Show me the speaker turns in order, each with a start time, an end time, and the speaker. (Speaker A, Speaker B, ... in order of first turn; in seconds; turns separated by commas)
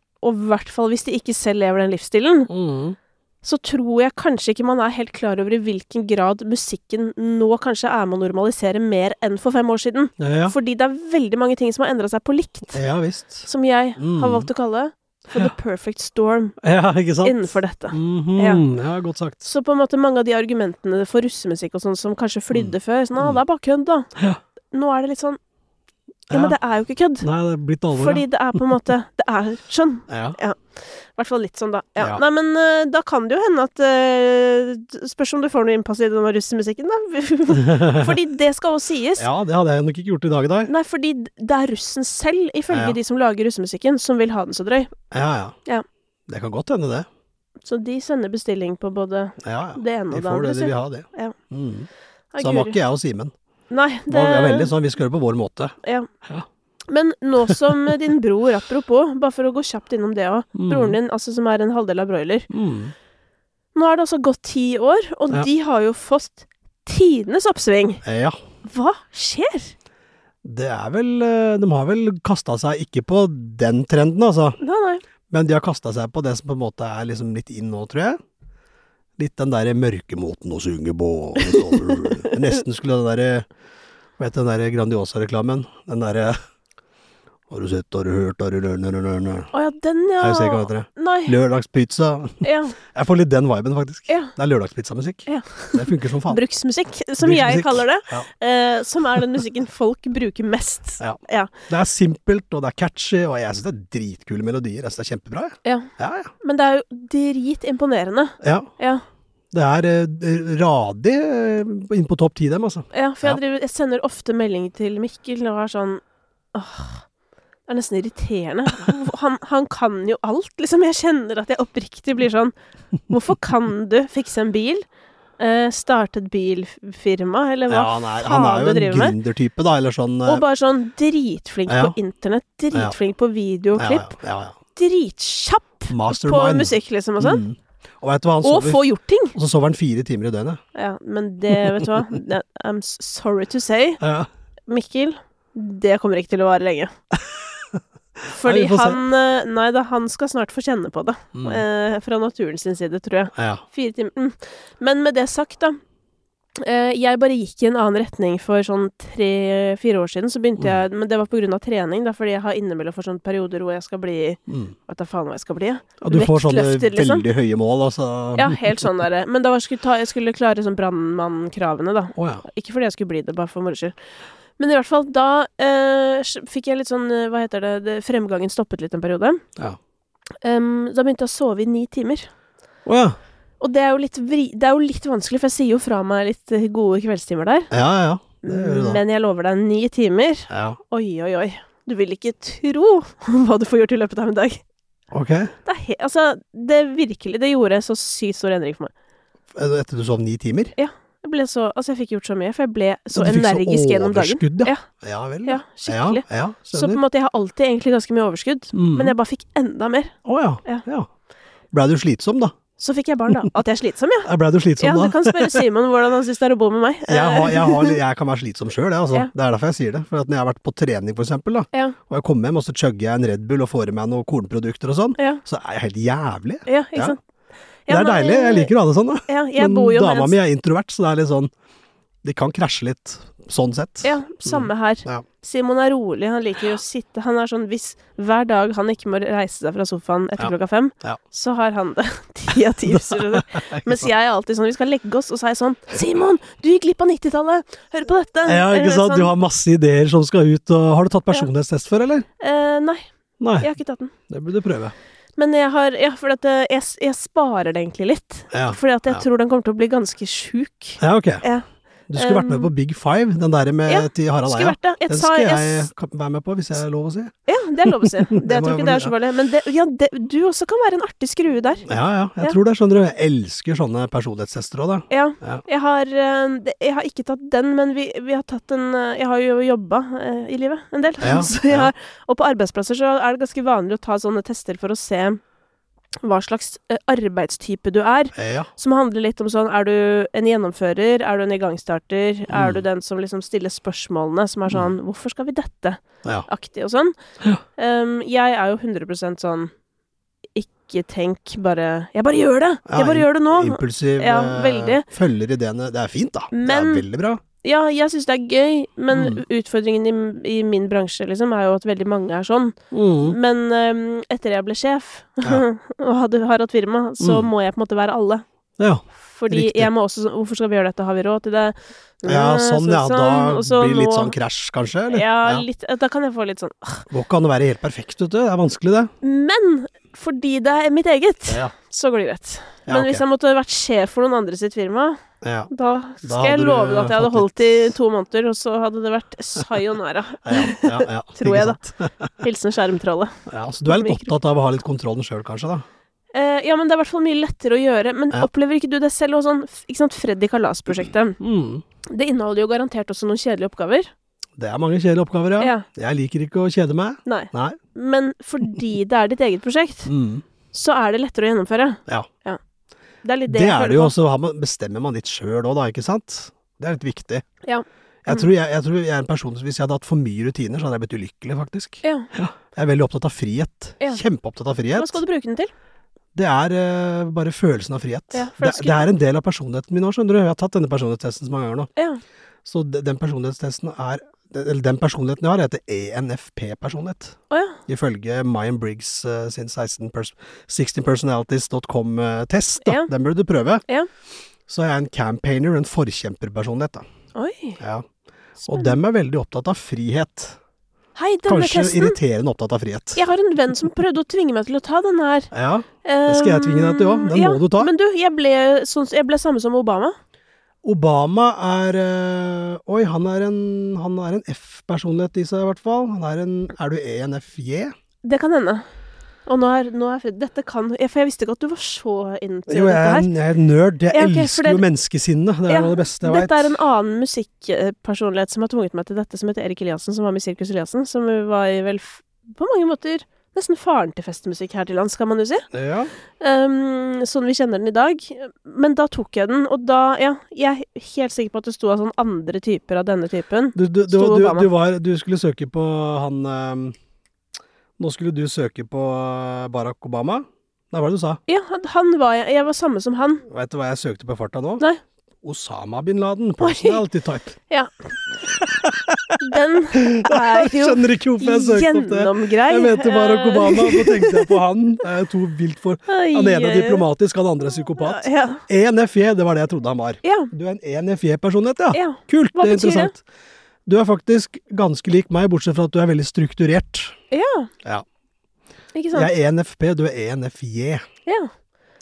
Speaker A: 0.2-2.5, Speaker B: 2.5-3.0, Speaker A: 3.4-12.8, Speaker B: 10.2-10.6, Speaker B: 12.7-14.5, Speaker A: 13.5-16.6, Speaker B: 16.6-19.5, Speaker A: 17.2-18.6, Speaker A: 19.5-24.1, Speaker B: 22.5-23.4, Speaker A: 24.7-25.4, Speaker B: 26.3-26.6, Speaker A: 26.3-27.3, Speaker B: 27.2-28.3, Speaker A: 27.9-39.3, Speaker B: 30.1-30.4, Speaker B: 37.6-38.1, Speaker B: 39.2-40.7, Speaker A: 40.7-44.9, Speaker B: 42.7-43.0, Speaker B: 45.1-45.6, Speaker B: 46.3-47.1, Speaker A: 47.6-51.4, Speaker B: 49.4-51.9, Speaker A: 52.3-52.8, Speaker B: 52.4-53.3, Speaker A: 53.7-54.7, Speaker B: 54.1-56.5, Speaker A: 55.8-56.1, Speaker A: 56.9-62.5, Speaker B: 60.5-61.0, Speaker B: 62.5-62.9, Speaker A: 63.8-68.0, Speaker B: 68.0-68.4, Speaker A: 68.7-69.7, Speaker B: 70.4-74.6, Speaker A: 74.6-75.0, Speaker B: 75.3-78.2, Speaker B: 79.2-83.5, Speaker B: 84.2-86.4, Speaker B: 87.5-89.5, Speaker A: 89.5-91.4, Speaker B: 90.2-96.4, Speaker A: 92.4-92.8, Speaker A: 94.1-94.3, Speaker A: 95.3-101.5, Speaker B: 97.2-98.3, Speaker B: 101.0-106.3, Speaker A: 105.7-109.0, Speaker B: 108.4-108.7, Speaker B: 109.5-113.4, Speaker A: 112.9-116.0, Speaker A: 116.5-117.1, Speaker A: 117.7-122.5, Speaker A: 123.1-124.8, Speaker A: 125.4-129.2, Speaker B: 127.7-130.4, Speaker A: 130.3-134.2, Speaker B: 131.7-132.0, Speaker B: 133.8-134.6, Speaker A: 134.8-137.4, Speaker B: 135.9-140.6, Speaker A: 138.4-139.3, Speaker A: 140.8-144.0, Speaker B: 141.5-141.9, Speaker B: 144.0-144.3, Speaker A: 144.7-146.9, Speaker B: 147.1-149.0, Speaker A: 148.3-155.8, Speaker B: 151.3-151.6, Speaker B: 153.3-153.6, Speaker A: 156.6-167.3, Speaker B: 164.5-164.8, Speaker B: 166.0-168.9, Speaker A: 168.4-173.9, Speaker B: 172.2-172.4, Speaker A: 174.6-179.4, Speaker A: 180.4-182.3, Speaker B: 182.8-183.2, Speaker A: 183.6-187.7, Speaker B: 187.7-189.0, Speaker A: 188.4-194.6, Speaker B: 190.5-190.8, Speaker B: 195.1-195.5, Speaker A: 195.7-198.9, Speaker B: 199.5-200.7, Speaker A: 200.8-204.8, Speaker B: 203.1-207.0, Speaker A: 205.4-210.8, Speaker B: 208.7-209.2, Speaker B: 210.2-211.1, Speaker B: 211.7-212.6, Speaker A: 212.8-218.0, Speaker B: 214.2-215.6, Speaker B: 217.1-227.2, Speaker A: 226.7-227.2, Speaker A: 227.9-228.7, Speaker B: 227.9-231.5, Speaker A: 229.3-230.3, Speaker B: 232.2-235.2, Speaker A: 234.0-249.3, Speaker B: 240.4-241.2, Speaker B: 242.8-244.1, Speaker B: 248.5-252.3, Speaker A: 252.4-253.1, Speaker B: 253.4-253.7, Speaker A: 253.6-254.1, Speaker B: 254.3-254.9, Speaker A: 255.4-262.7, Speaker B: 258.5-259.2, Speaker B: 261.0-261.4, Speaker B: 262.1-269.1, Speaker A: 263.9-265.9, Speaker A: 267.5-271.9, Speaker B: 271.9-275.6, Speaker A: 275.1-285.4, Speaker B: 281.2-281.9, Speaker A: 286.2-297.2, Speaker B: 288.4-288.7, Speaker B: 292.5-292.8, Speaker A: 297.8-299.7, Speaker A: 300.6-305.1, Speaker B: 302.9-307.4, Speaker A: 306.5-307.1, Speaker A: 307.6-318.4, Speaker B: 309.1-309.4, Speaker B: 312.9-313.4, Speaker B: 317.2-317.5, Speaker B: 318.8-319.9, Speaker A: 319.2-324.3, Speaker B: 322.3-325.6, Speaker A: 325.1-327.1, Speaker B: 327.1-329.1, Speaker A: 329.2-335.2, Speaker B: 331.5-331.7, Speaker B: 332.9-333.2, Speaker B: 335.4-335.7, Speaker A: 335.7-341.8, Speaker B: 336.2-337.9, Speaker B: 340.4-342.4, Speaker A: 342.4-343.4, Speaker B: 343.5-345.9, Speaker A: 343.9-344.3, Speaker A: 346.3-351.4, Speaker B: 351.4-351.8, Speaker A: 352.1-354.1, Speaker B: 354.6-357.8, Speaker A: 355.6-355.9, Speaker A: 357.2-360.1, Speaker B: 360.1-360.4, Speaker A: 360.7-362.6, Speaker A: 363.2-364.1, Speaker B: 363.5-367.4, Speaker A: 367.6-368.5, Speaker B: 368.2-375.2, Speaker A: 372.0-372.3, Speaker A: 374.9-375.7, Speaker B: 376.4-381.9, Speaker A: 378.3-379.1, Speaker A: 382.0-382.2, Speaker B: 382.6-393.8, Speaker A: 387.5-387.8, Speaker A: 392.8-393.1, Speaker B: 394.7-397.1, Speaker A: 397.4-397.8, Speaker B: 397.8-398.1, Speaker A: 398.6-398.9, Speaker B: 398.7-400.6, Speaker A: 401.2-402.2, Speaker B: 401.5-403.2, Speaker A: 403.2-405.5, Speaker B: 405.5-407.9, Speaker A: 406.0-410.2, Speaker B: 410.8-417.9, Speaker A: 418.2-418.9, Speaker A: 419.5-423.3, Speaker B: 422.7-426.7, Speaker A: 424.1-424.8, Speaker A: 425.7-435.7, Speaker B: 435.7-436.1, Speaker A: 436.4-444.7, Speaker B: 443.8-447.0, Speaker B: 448.0-451.4, Speaker A: 451.5-453.4, Speaker B: 453.5-454.8, Speaker B: 455.4-457.6, Speaker A: 456.6-457.0, Speaker A: 457.7-458.1, Speaker B: 458.5-459.4, Speaker A: 459.4-464.6, Speaker B: 459.9-473.2, Speaker A: 466.1-467.1, Speaker A: 468.0-468.6, Speaker A: 470.2-470.5, Speaker A: 471.9-473.1, Speaker B: 473.9-477.2, Speaker A: 477.3-477.7, Speaker A: 478.9-479.3, Speaker B: 479.1-481.1, Speaker A: 481.3-481.5